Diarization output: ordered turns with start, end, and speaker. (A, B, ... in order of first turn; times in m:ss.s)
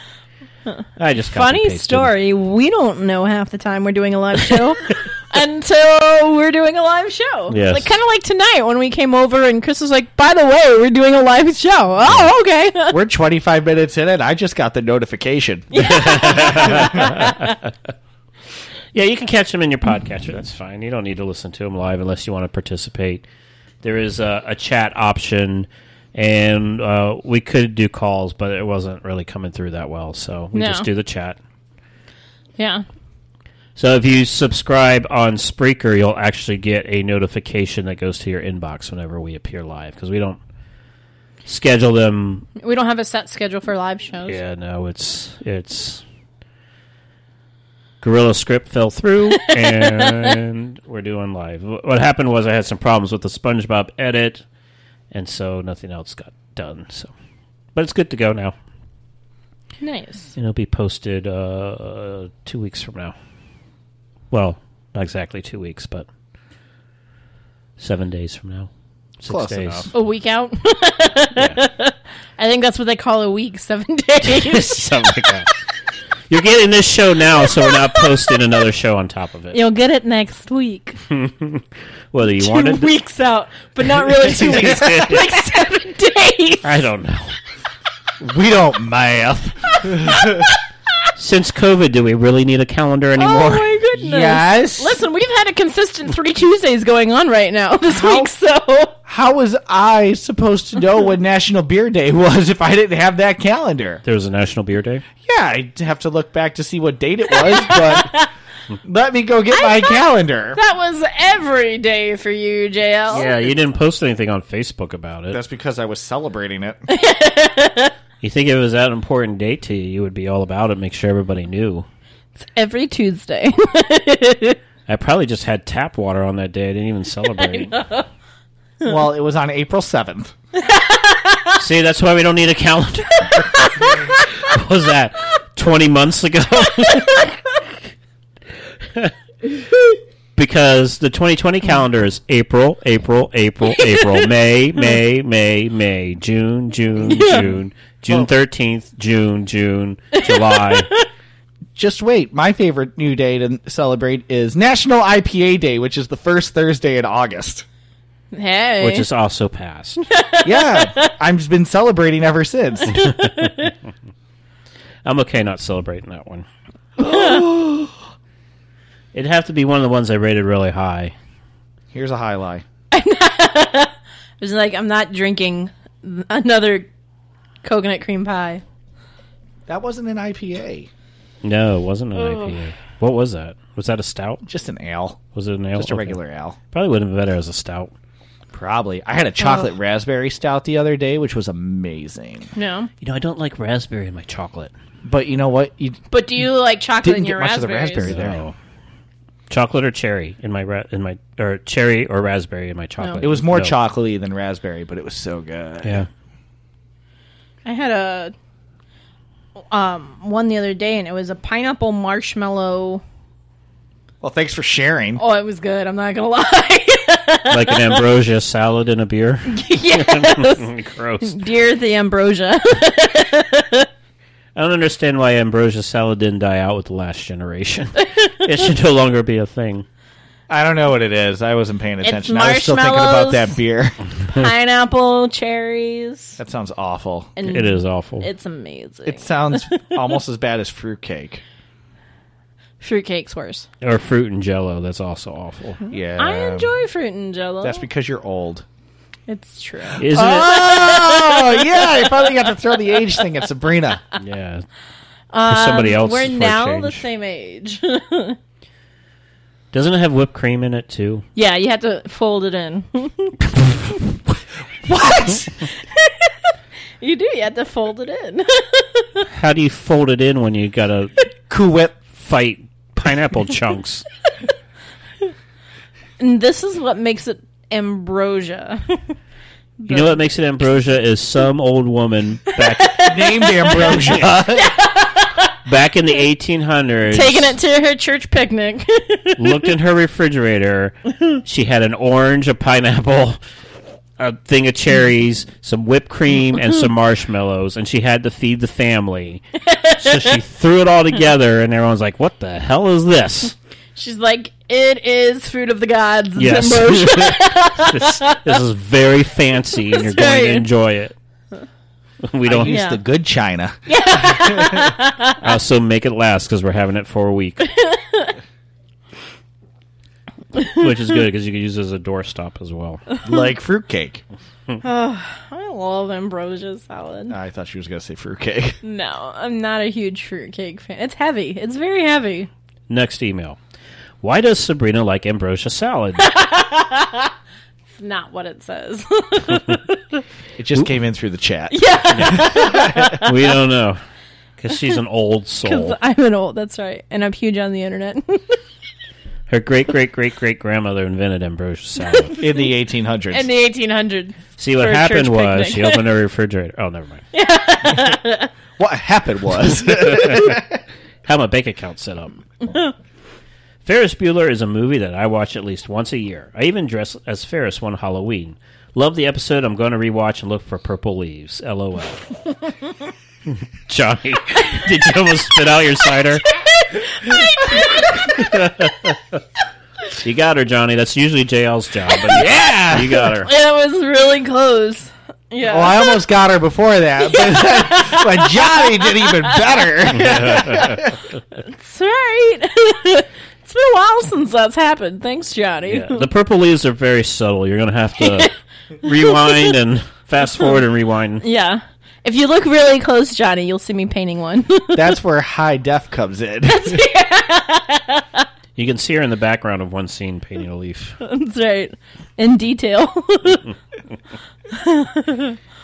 0:00.7-0:13.0 A
0:01.0-0:02.1 B
0:07.5-0:07.9 B
0:12.0-0:12.3 B
0:12.9-0:17.0 C
0:15.7-0:17.5 A
0:15.8-0:17.7 B
0:18.9-0:23.2 B
0:23.8-0:31.4 B
0:30.5-0:30.9 A
0:32.6-0:32.8 A
0:33.8-0:40.4 B
0:41.4-0:42.5 B
0:42.6-0:44.4 A
0:44.3-0:46.0 B
0:48.0-0:54.4 B
0:49.4-0:50.4 A
0:55.1-0:57.1 B
0:57.7-0:58.5 B
0:59.8-1:00.3 A
1:00.4-1:03.1 B
1:04.3-1:06.1 B
1:07.8-1:08.7 B
1:09.2-1:09.9 B
1:09.3-1:09.9 C
1:09.9-1:15.3 A
1:11.4-1:11.6 B
1:14.2-1:15.5 B
1:16.3-1:19.6 B
1:17.4-1:18.4 A
1:19.5-1:21.0 A
1:21.1-1:22.9 B
1:22.3-1:26.8 A
1:24.0-1:25.4 B
1:24.4-1:25.1 C
1:26.6-1:27.3 B
1:28.2-1:30.4 C
1:29.8-1:30.5 A
1:31.2-1:33.7 B
1:33.2-1:39.0 A
1:34.0-1:35.0 C
1:37.9-1:38.3 C
1:39.0-1:44.0 C
1:44.0-1:45.0 B
1:45.2-1:48.1 C
1:47.3-1:48.3 A
1:48.8-1:50.6 C
1:49.5-1:53.2 A
1:53.1-1:55.4 B
1:53.1-1:53.5 C
1:55.3-1:56.8 C
1:56.9-1:57.9 A
1:58.2-2:01.8 B
2:02.4-2:04.6 A
2:04.9-2:07.8 B
2:07.4-2:08.0 A
2:08.8-2:10.3 C
2:10.6-2:11.6 A
2:11.6-2:17.3 B
2:13.3-2:14.2 A
2:20.3-2:30.9 B
2:23.7-2:24.3 A
2:27.0-2:27.5 A
2:30.1-2:31.1 A
2:31.7-2:37.6 C
2:38.3-2:39.1 A
2:38.8-2:40.0 B
2:40.1-2:41.1 A
2:40.4-2:43.0 C
2:42.9-2:43.7 A
2:42.9-2:43.6 B
2:45.0-2:46.4 B
2:47.0-2:47.9 C
2:47.0-2:47.4 A
2:49.1-2:51.1 B
2:51.9-2:52.6 C
2:52.9-2:56.9 A
2:57.6-2:58.6 A
2:59.7-3:00.9 C
3:01.4-3:04.4 B
3:02.1-3:02.6 A
3:04.5-3:05.2 C
3:05.3-3:06.2 B
3:05.7-3:06.6 C
3:06.7-3:07.9 B
3:08.5-3:12.5 C
3:12.5-3:12.9 A
3:13.0-3:14.7 B
3:15.0-3:16.0 C
3:16.1-3:18.2 A
3:17.0-3:18.4 C
3:18.0-3:18.5 B
3:19.5-3:23.7 B
3:23.0-3:23.2 A
3:23.2-3:26.0 C
3:25.8-3:26.1 B
3:27.6-3:28.3 A
3:29.7-3:33.0 A
3:34.2-3:35.2 C
3:35.2-3:38.0 A
3:37.5-3:41.4 B
3:39.5-3:40.7 A
3:41.2-3:43.9 A
3:44.5-3:49.8 B
3:50.5-3:54.0 C
3:52.0-3:53.6 A
3:54.3-3:56.4 A
3:56.4-3:57.3 C
3:57.4-4:00.1 A
3:57.4-3:58.3 B
3:59.0-4:01.4 C
4:02.8-4:03.7 A
4:03.8-4:05.8 B
4:05.8-4:07.8 A
4:05.9-4:06.7 C
4:07.6-4:08.6 C
4:09.3-4:12.5 A
4:10.0-4:10.8 B
4:10.1-4:14.0 C
4:14.2-4:14.6 B
4:15.3-4:18.4 A
4:15.5-4:17.0 B
4:19.7-4:21.2 B
4:21.3-4:24.0 A
4:24.8-4:25.6 C
4:25.8-4:29.2 A
4:29.3-4:31.1 B
4:31.5-4:32.0 C
4:32.1-4:34.0 B
4:36.2-4:39.1 A
4:39.8-4:40.2 A
4:39.9-4:43.0 B
4:42.5-4:45.5 A
4:43.0-4:44.7 C
4:44.0-4:44.2 B
4:45.6-4:47.6 B
4:47.1-4:49.7 A
4:49.4-4:53.4 B
4:54.2-4:59.4 B
4:59.6-5:00.4 A
5:00.0-5:03.5 B
5:04.0-5:08.6 A
5:06.4-5:11.1 B
5:09.9-5:10.7 A
5:12.2-5:12.8 B
5:12.4-5:14.8 C
5:12.6-5:13.0 A
5:13.8-5:15.4 A
5:15.4-5:17.6 B
5:17.6-5:18.3 A
5:20.6-5:23.0 B
5:23.2-5:24.2 C
5:24.8-5:27.4 A
5:27.3-5:28.8 C
5:28.8-5:32.5 A
5:32.9-5:33.6 B
5:34.2-5:36.2 B
5:36.2-5:37.3 A
5:38.0-5:40.0 A
5:40.6-5:43.2 C
5:41.7-5:43.3 A
5:42.1-5:42.6 B
5:43.1-5:44.0 B
5:44.6-5:46.0 B
5:45.6-5:48.6 A
5:49.5-5:52.4 B
5:52.0-5:52.6 A
5:52.4-5:53.4 C
5:53.3-5:56.0 A
5:54.6-5:57.2 B
5:57.3-5:58.5 A
5:58.8-6:00.8 C
5:59.9-6:00.6 B
6:01.2-6:02.4 B
6:02.6-6:02.9 A
6:03.8-6:12.3 B
6:13.5-6:16.5 B
6:16.8-6:18.4 A
6:18.2-6:19.2 B
6:20.1-6:23.5 B
6:22.3-6:23.3 C
6:23.4-6:26.2 A
6:25.6-6:31.2 C
6:27.2-6:30.6 A
6:30.1-6:31.1 B
6:31.6-6:36.2 A
6:35.9-6:41.4 B
6:38.2-6:38.5 A
6:39.0-6:39.7 A
6:41.4-6:45.0 A
6:44.9-6:47.0 C
6:46.7-6:48.4 A
6:48.8-6:51.2 B
6:51.2-6:53.7 A
6:54.7-6:55.6 A